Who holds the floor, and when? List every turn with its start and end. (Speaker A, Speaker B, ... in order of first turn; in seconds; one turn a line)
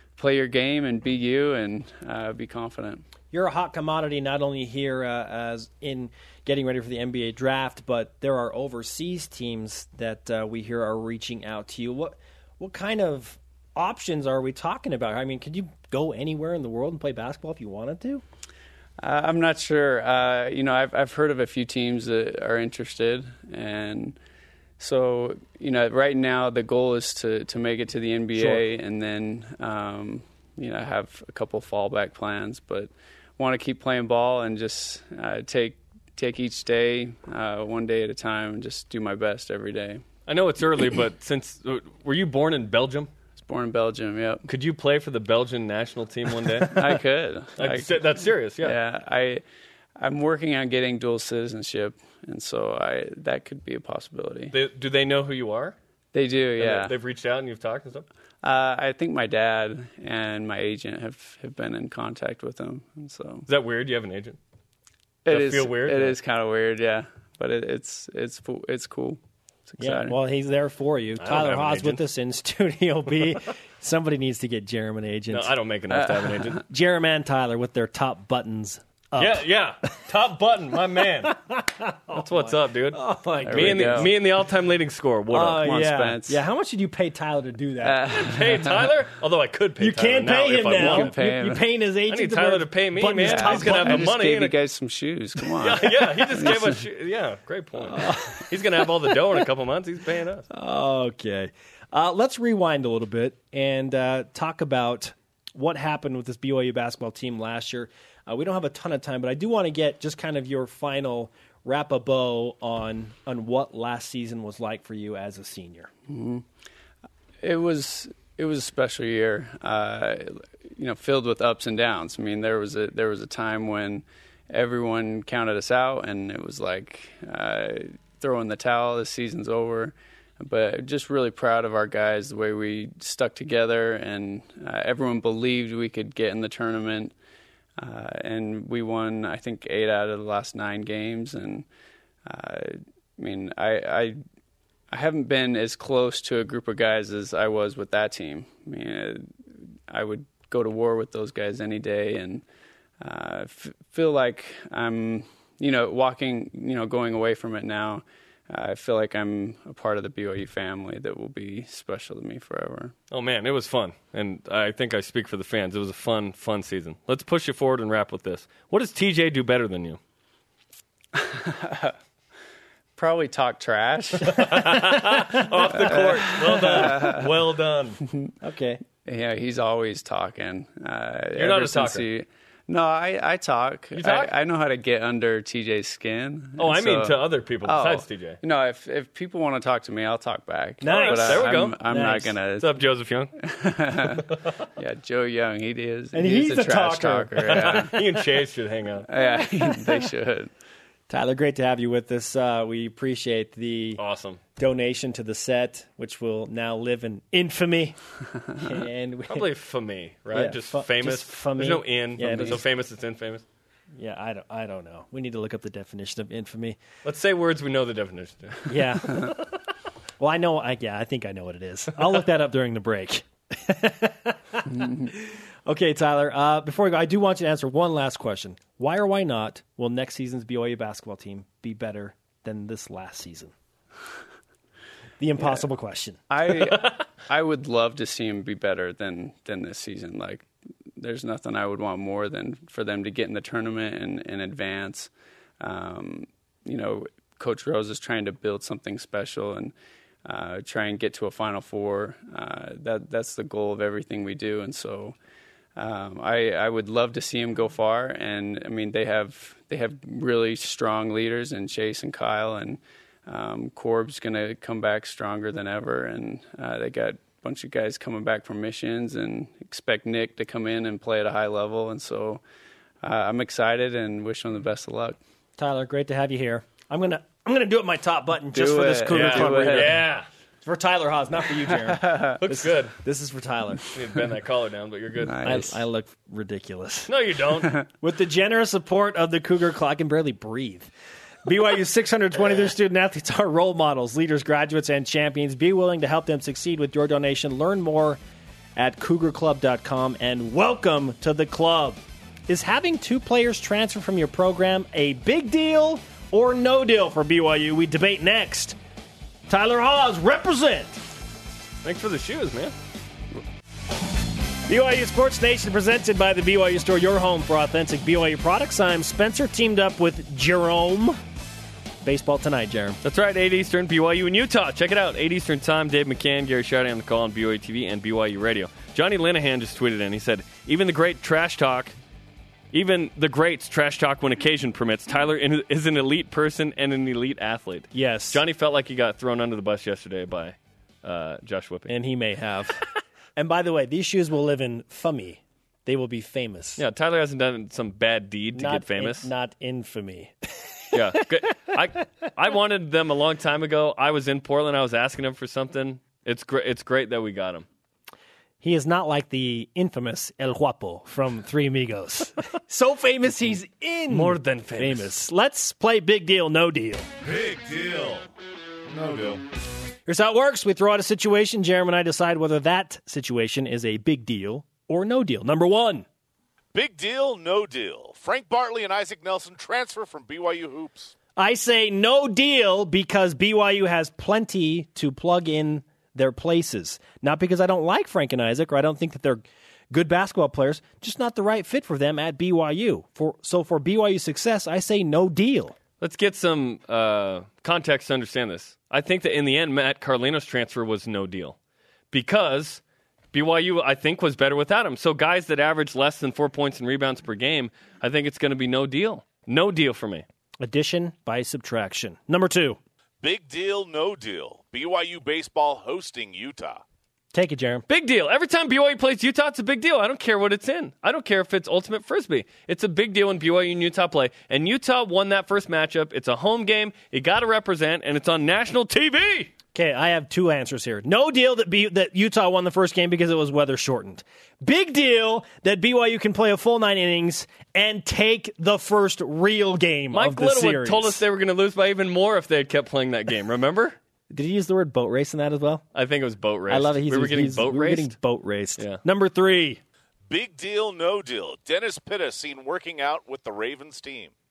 Speaker A: 0.2-3.0
Speaker B: 3.3-18.2
Speaker A: 19.0-24.2
Speaker A: 24.8-40.0
Speaker C: 40.3-43.1
Speaker A: 43.4-44.5
Speaker C: 44.5-47.0
Speaker A: 46.6-48.0
Speaker C: 47.6-48.8
Speaker A: 48.6-49.4
Speaker A: 50.0-54.5
Speaker C: 54.5-55.8
Speaker A: 56.1-56.9
Speaker C: 56.6-58.0
Speaker A: 58.4-63.5
Speaker C: 63.5-64.4
Speaker A: 65.2-70.2
Speaker C: 65.3-66.2
Speaker B: 69.8-75.5
Speaker C: 71.2-72.0
Speaker C: 75.3-76.6
Speaker B: 76.7-79.5
Speaker C: 79.2-81.3
Speaker B: 81.2-84.1
Speaker C: 82.1-85.8
Speaker A: 83.4-84.1
Speaker B: 85.3-88.1
Speaker A: 85.5-86.4
Speaker A: 87.8-88.8
Speaker C: 88.1-91.1
Speaker B: 89.8-94.1
Speaker A: 90.7-91.6
Speaker C: 92.1-94.5
Speaker A: 93.2-96.8
Speaker C: 95.6-100.5
Speaker B: 97.8-98.5
Speaker B: 100.5-115.9
Speaker A: 116.1-116.4
Speaker A: 117.4-137.1
Speaker A: 137.8-141.7
Speaker A: 142.2-144.2
Speaker A: 144.9-149.3
Speaker A: 149.9-152.4
Speaker A: 153.0-162.9
Speaker C: 163.1-170.0
Speaker A: 171.1-171.9
Speaker A: 173.0-174.8
Speaker C: 174.3-178.0
Speaker B: 174.6-175.4
Speaker A: 175.8-177.4
Speaker A: 178.0-178.3
Speaker B: 178.4-178.8
Speaker A: 179.0-192.8
Speaker C: 181.3-182.1
Speaker C: 183.9-184.3
Speaker C: 186.6-188.4
Speaker B: 190.8-192.4
Speaker C: 190.8-191.8
Speaker C: 192.6-193.3
Speaker A: 193.4-198.0
Speaker B: 196.1-198.1
Speaker C: 197.4-199.1
Speaker A: 199.1-200.5
Speaker B: 201.1-204.0
Speaker C: 204.0-204.4
Speaker B: 204.6-208.0
Speaker B: 208.6-209.5
Speaker C: 209.3-213.4
Speaker B: 210.3-212.6
Speaker B: 213.9-216.8
Speaker C: 217.0-219.3
Speaker B: 218.7-219.3
Speaker B: 220.2-233.5
Speaker B: 235.2-236.2
Speaker A: 236.3-249.7
Speaker A: 250.2-255.2
Speaker A: 255.8-272.4
Speaker A: 273.0-275.2
Speaker B: 275.6-280.0
Speaker A: 278.5-280.0
Speaker C: 279.1-280.3
Speaker B: 280.6-283.8
Speaker A: 282.1-282.3
Speaker C: 282.3-282.9
Speaker C: 283.9-285.5
Speaker A: 285.2-285.8
Speaker B: 285.4-287.1
Speaker C: 287.1-287.8
Speaker B: 287.9-290.9
Speaker B: 291.4-298.2
Speaker B: 298.8-308.8
Speaker B: 309.5-311.0
Speaker C: 311.8-312.7
Speaker B: 314.7-321.2
Speaker B: 322.0-323.0
Speaker C: 323.0-331.9
Speaker C: 332.7-341.9
Speaker B: 337.9-338.4
Speaker B: 341.9-346.8
Speaker C: 346.8-349.3
Speaker B: 348.5-351.2
Speaker C: 350.9-357.6
Speaker B: 358.6-367.1
Speaker C: 364.1-365.1
Speaker D: 367.2-368.3
Speaker D: 368.9-369.4
Speaker B: 370.1-376.1
Speaker D: 376.7-381.1
Speaker B: 381.4-395.7
Speaker C: 396.0-401.6
Speaker C: 402.1-402.8
Speaker C: 403.3-410.2
Speaker B: 410.6-412.8
Speaker D: 413.2-416.8
Speaker B: 417.3-417.9
Speaker C: 417.9-429.5
Speaker B: 429.7-441.2
Speaker C: 440.1-444.0
Speaker B: 444.3-445.8
Speaker C: 445.9-448.1
Speaker B: 446.7-449.8
Speaker D: 450.3-454.3